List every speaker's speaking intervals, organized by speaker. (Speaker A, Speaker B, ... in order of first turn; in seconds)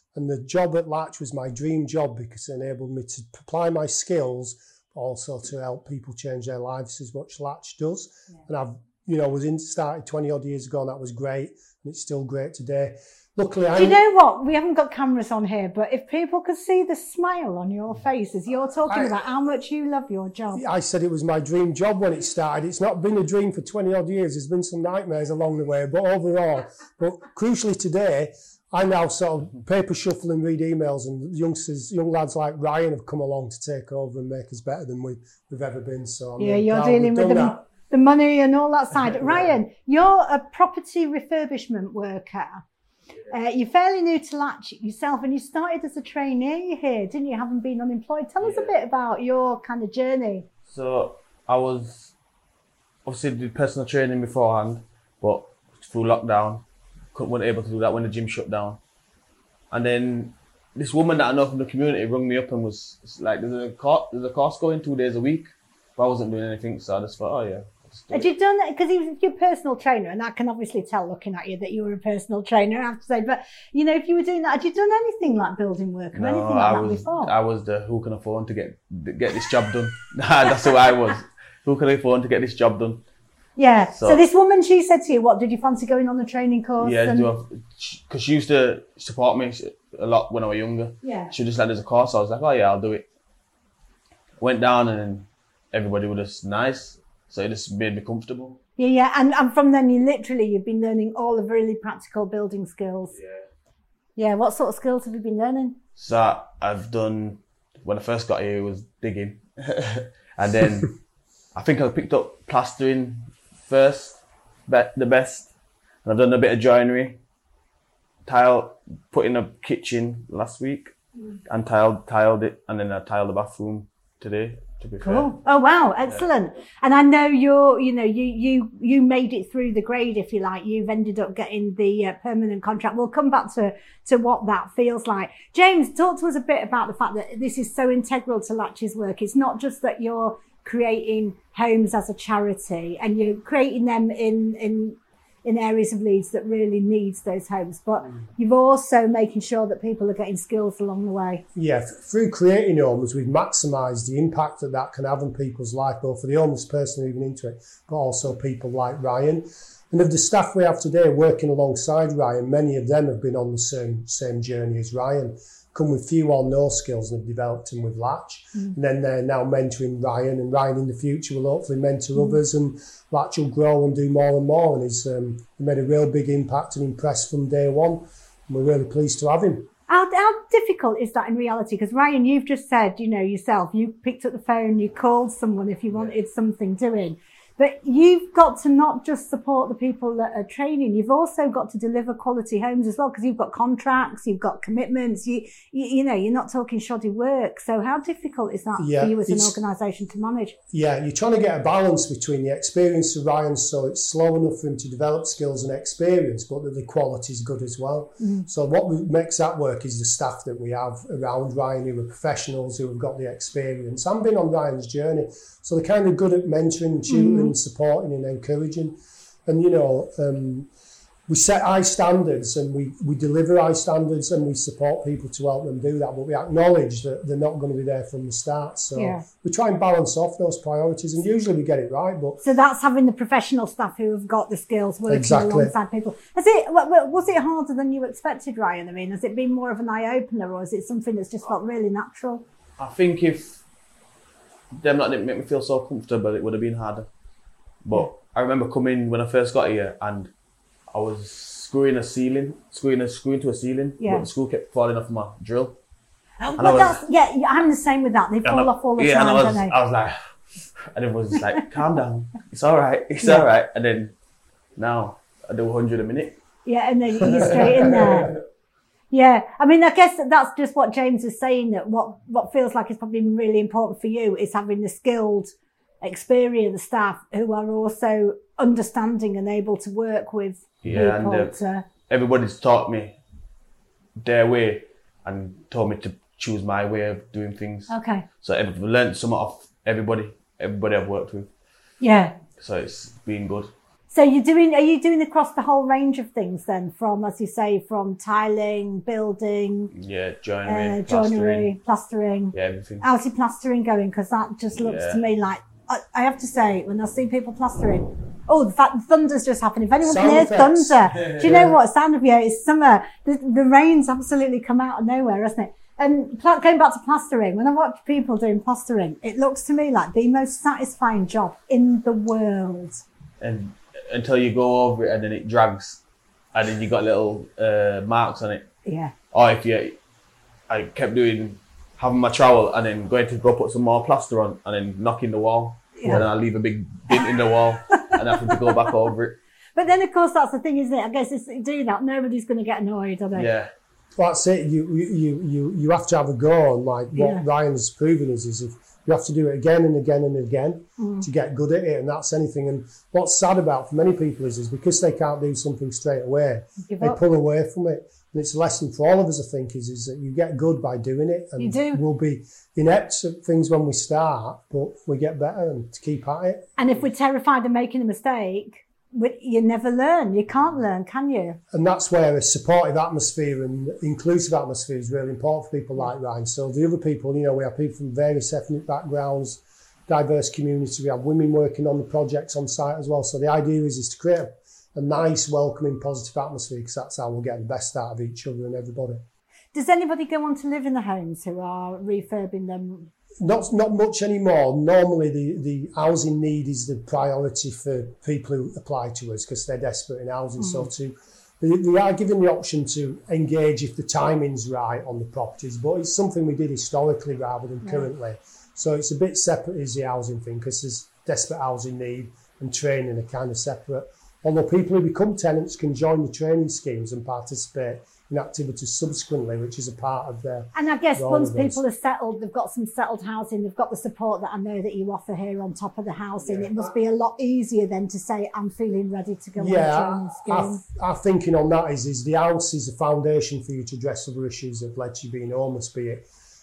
Speaker A: 0.1-14.0, 18.9-19.2, 20.5-37.6, 151.6-179.7, 198.8-199.6, 200.7-218.9, 219.5-220.7, 221.3-232.4, 235.1-235.7, 310.0-311.8, 344.2-366.7, 371.7-389.2, 393.4-421.8, 426.6-426.9, 429.6-436.2
Speaker B: 13.8-20.6, 36.4-42.6, 43.3-50.5, 68.1-77.3, 83.6-87.3, 91.0-91.3, 98.8-103.1, 104.2-105.8, 125.0-151.4, 179.9-200.6, 208.2-208.4, 217.1-217.5, 228.9-229.2, 232.4-242.4, 254.0-254.3, 256.4-259.7, 263.2-263.5, 266.7-268.3, 269.1-281.9, 287.9-288.2, 292.0-292.4, 294.1-299.9, 300.7-323.0, 328.9-329.1, 335.9-336.2, 337.9-338.8, 339.8-343.5, 347.1-347.4, 351.0-351.2, 356.9-357.2, 361.6-362.0, 366.8-371.6, 389.7-393.1, 400.6-400.9, 407.8-408.1, 420.7-430.8
Speaker C: 48.4-48.7, 50.7-52.1, 53.1-56.6, 57.1-58.8, 59.7-68.3, 76.2-83.0, 83.9-84.2, 86.8-93.0, 94.4-98.6, 103.1-103.5, 106.0-110.9, 111.5-115.5, 116.0-117.2, 118.2-120.9, 121.5-125.3, 242.8-243.6, 244.8-247.1, 247.8-250.3, 250.9-255.8, 256.6-257.0, 258.4-264.1, 264.8-266.4, 267.5-268.3, 280.8-281.6, 282.1-283.2, 284.2-291.5, 292.6-293.7, 299.9-301.7, 302.5-303.1, 304.8-305.2, 323.4-326.0, 326.5-328.7, 329.3-329.9, 330.7-339.4, 343.4-343.7